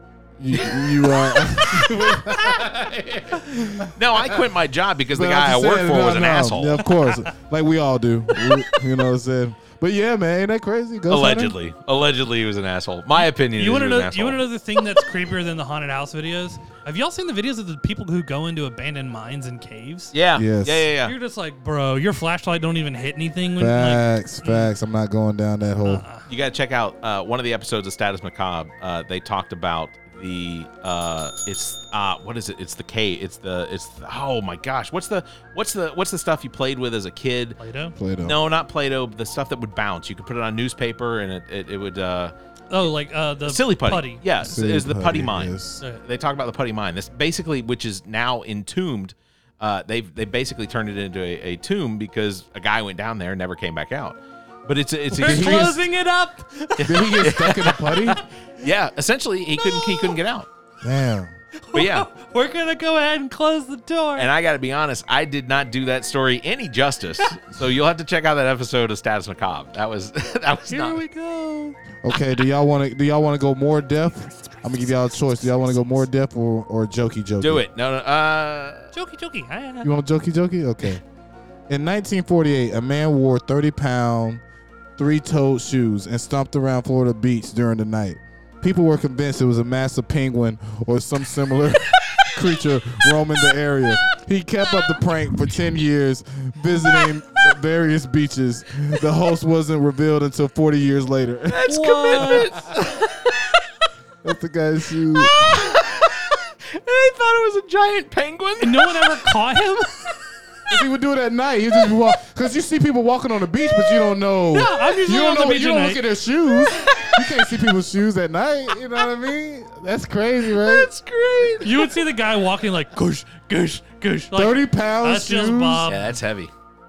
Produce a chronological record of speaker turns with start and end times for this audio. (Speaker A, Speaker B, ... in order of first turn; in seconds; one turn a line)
Speaker A: 0.4-2.8
Speaker B: 2.7-3.2
Speaker A: 3.5-4.3
Speaker B: 4.0-6.8
Speaker A: 5.1-11.6
Speaker C: 6.8-7.2
Speaker B: 11.1-14.4
Speaker C: 13.2-20.1
Speaker B: 20.1-21.1
Speaker A: 20.4-20.9
Speaker C: 21.0-24.7
Speaker A: 23.6-26.0
Speaker C: 25.8-26.3
Speaker B: 26.3-37.6
Speaker C: 37.6-38.0
Speaker A: 38.0-38.4
Speaker B: 38.2-42.3
Speaker C: 42.7-44.3
Speaker B: 43.5-55.8
Speaker A: 44.4-45.8
Speaker C: 55.1-57.3
Speaker A: 55.2-55.8
Speaker A: 56.8-58.2
Speaker B: 58.6-60.5
Speaker C: 59.7-60.2
Speaker A: 60.8-61.3
Speaker C: 61.7-64.3
Speaker B: 61.7-62.1
Speaker B: 64.2-71.0
Speaker C: 70.7-72.0
Speaker A: 72.0-77.7
Speaker B: 77.4-78.9
Speaker C: 78.9-79.9
Speaker A: 79.8-81.0
Speaker A: 81.7-84.4
Speaker A: 85.0-101.7
Speaker B: 101.5-102.8
Speaker C: 101.7-102.7
Speaker A: 104.2-105.5
Speaker B: 105.6-106.0
Speaker B: 106.8-108.8
Speaker C: 108.6-110.0
Speaker A: 110.7-120.9
Speaker C: 114.5-116.0
Speaker B: 120.7-121.7
Speaker C: 121.6-123.7
Speaker B: 123.7-124.3
Speaker C: 124.3-126.2
Speaker A: 124.3-125.9
Speaker B: 125.9-126.5